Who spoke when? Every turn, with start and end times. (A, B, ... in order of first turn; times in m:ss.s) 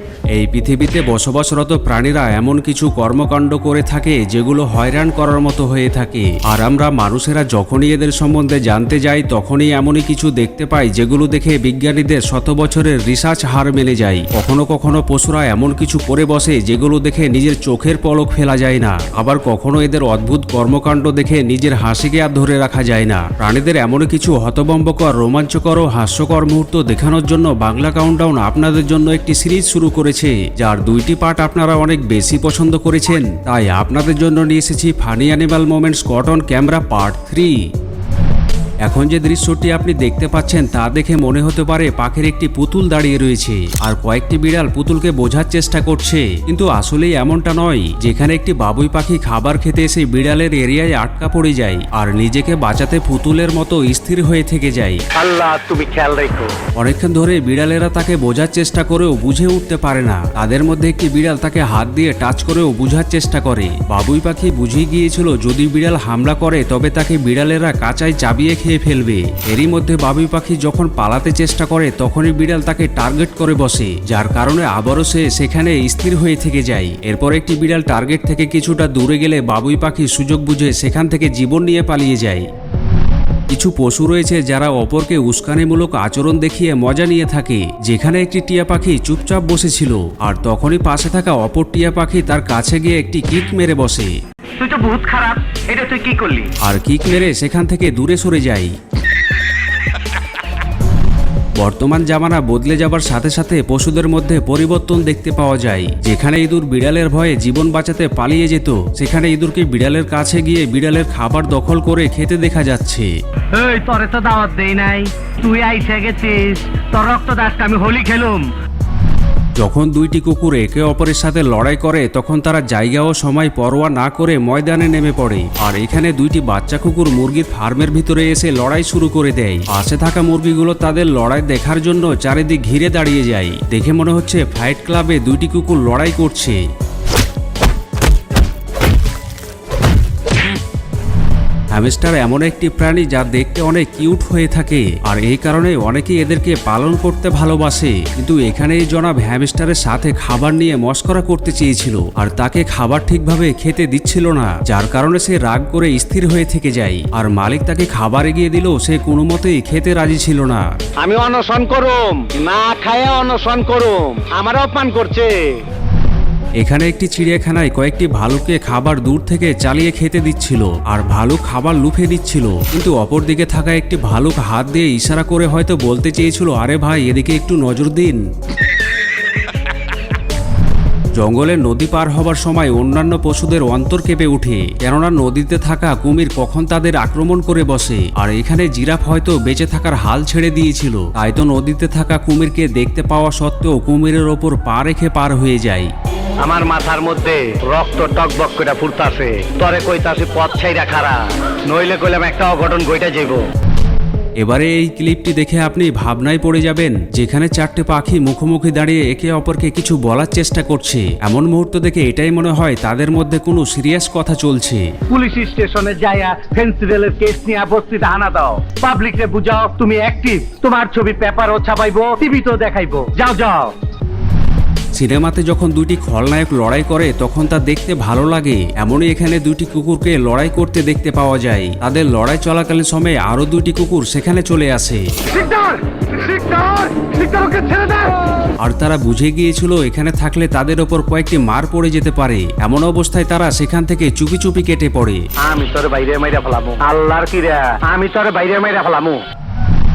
0:00.3-0:37.6 A
0:38.8-0:55.0 A
0:55.1-0:56.5 B
0:56.7-1:22.5 A
1:23.5-1:34.1 A
1:34.6-1:36.5 B
1:36.6-1:38.7 A
1:41.6-1:53.1 A
1:53.5-1:58.4 B
1:59.6-2:16.6 A
2:21.7-2:40.6 A
2:41.0-2:45.3 B
2:46.6-2:58.2 A
3:01.1-3:15.9 A
3:16.4-3:23.4 B
3:24.4-3:34.8 A
3:35.1-3:43.7 B
3:44.9-3:55.0 A
3:55.3-3:58.1 B
3:58.6-4:05.2 A
4:05.4-4:09.2 B